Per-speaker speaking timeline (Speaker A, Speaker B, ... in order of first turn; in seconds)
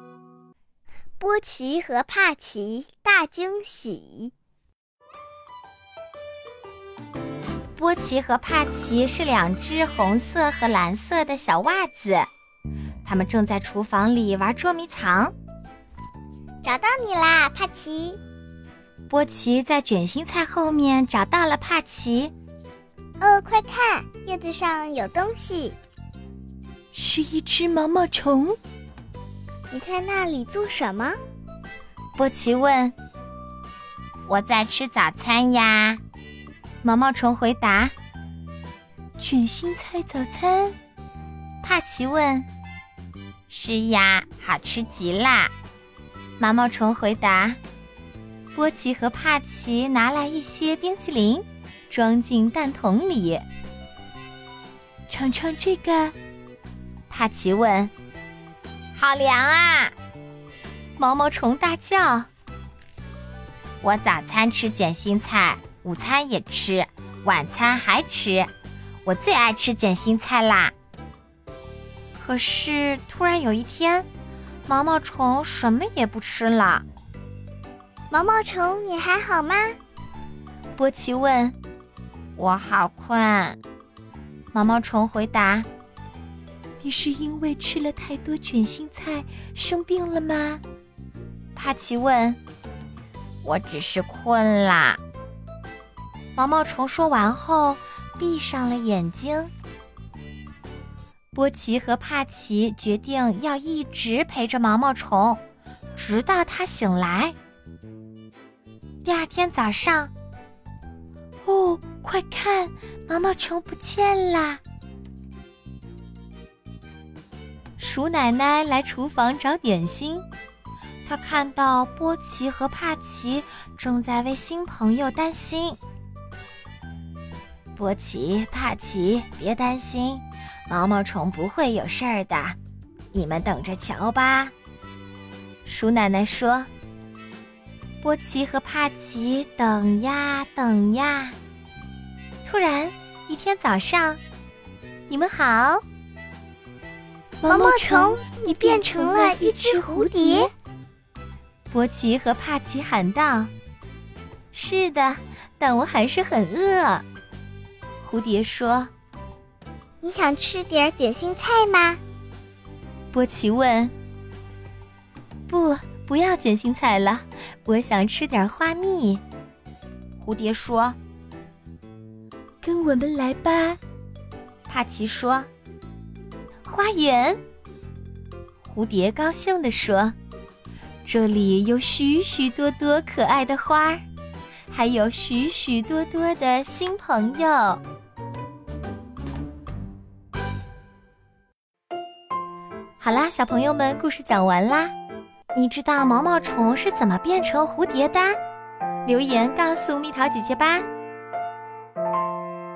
Speaker A: 1.2-4.3, 16.6-18.2, 23.2-25.8, 29.7-31.1, 78.1-79.8, 147.5-150.5, 160.0-162.0
Speaker B: 7.8-12.3, 13.0-15.3, 19.1-22.3, 26.9-28.6, 32.1-32.9, 34.3-36.0, 36.8-37.9, 39.2-40.8, 41.6-42.5, 43.5-45.5, 46.4-47.6, 48.5-53.4, 55.1-56.1, 57.1-57.9, 58.9-59.9, 61.0-62.3, 63.8-68.5, 69.0-70.7, 72.2-74.1, 74.7-76.8, 80.8-81.5, 82.4-83.6, 84.5-85.7, 86.8-90.6, 91.5-92.4, 93.4-95.0, 96.3-99.5, 101.3-105.4, 105.9-107.3, 109.0-110.1, 111.4-114.6, 117.8-120.2, 121.0-125.8, 127.8-132.6, 133.1-134.5, 135.6-136.7, 138.0-141.3, 142.4-144.2, 145.1-145.8, 147.4-150.5, 151.7-153.5, 154.5-157.0, 158.0-158.9, 163.1-163.9, 165.5-169.2, 170.2-171.0, 172.6-173.8, 174.7-175.5, 176.6-177.4, 178.6-180.1, 181.0-184.0, 184.7-187.8, 193.0-194.9, 195.5-198.4, 199.0-200.8